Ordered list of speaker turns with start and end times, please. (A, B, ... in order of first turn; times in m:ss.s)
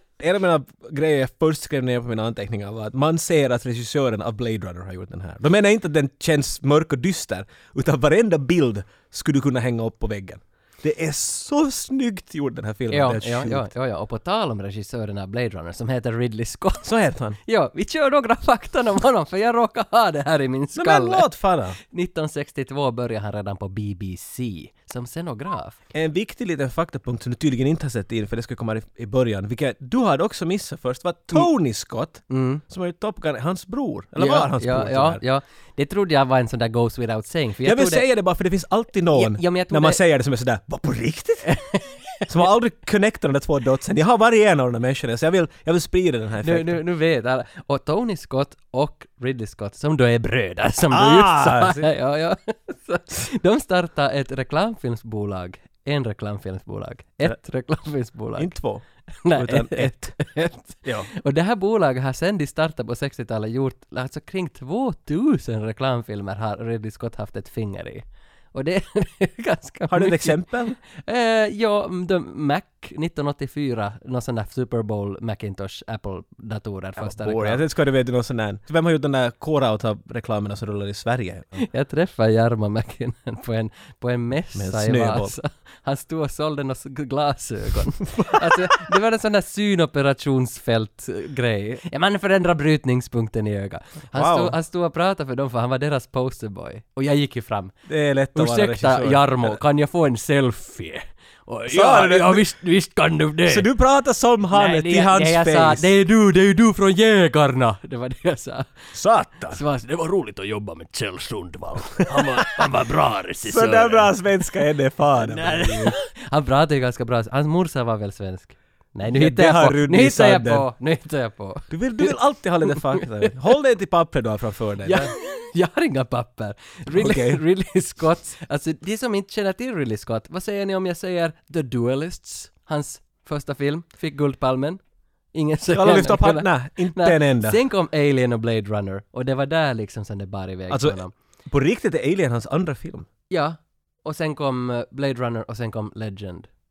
0:00.2-0:13.7 A
0:12.9-0:16.9 B
0:16.8-0:17.4 A
0:17.4-0:21.3 B
0:20.8-0:21.8 A
0:21.8-0:25.8 B
0:25.9-0:35.2 A
0:32.3-0:32.6 B
0:34.2-0:38.1 B
0:37.6-0:41.5 A
0:39.1-0:40.0 B
0:41.4-0:42.4 B
0:42.3-0:46.8 A
0:46.4-0:58.6 B
0:50.9-0:51.9 A
0:58.4-1:00.2 A
0:59.2-1:17.6 B
1:00.8-1:01.1 A
1:09.9-1:10.8 A
1:17.0-1:21.6 A
1:21.6-1:37.8 B
1:24.5-1:25.4 A
1:28.2-1:28.8 A
1:34.1-1:34.6 A
1:37.9-1:39.6 A
1:38.3-1:43.7 B
1:41.7-1:42.4 A
1:43.5-1:45.8 A
1:44.5-1:48.7 B
1:48.9-1:49.6 A
1:49.5-1:54.4 B
1:52.1-1:52.6 A
1:53.4-1:56.0 A
1:55.2-2:03.5 B
1:59.1-2:00.7 A
2:01.7-2:05.1 A
2:04.8-2:14.8 B
2:06.9-2:07.4 A
2:15.3-2:21.1 B
2:15.7-2:17.6 A
2:20.7-2:23.1 A
2:23.3-2:26.5 B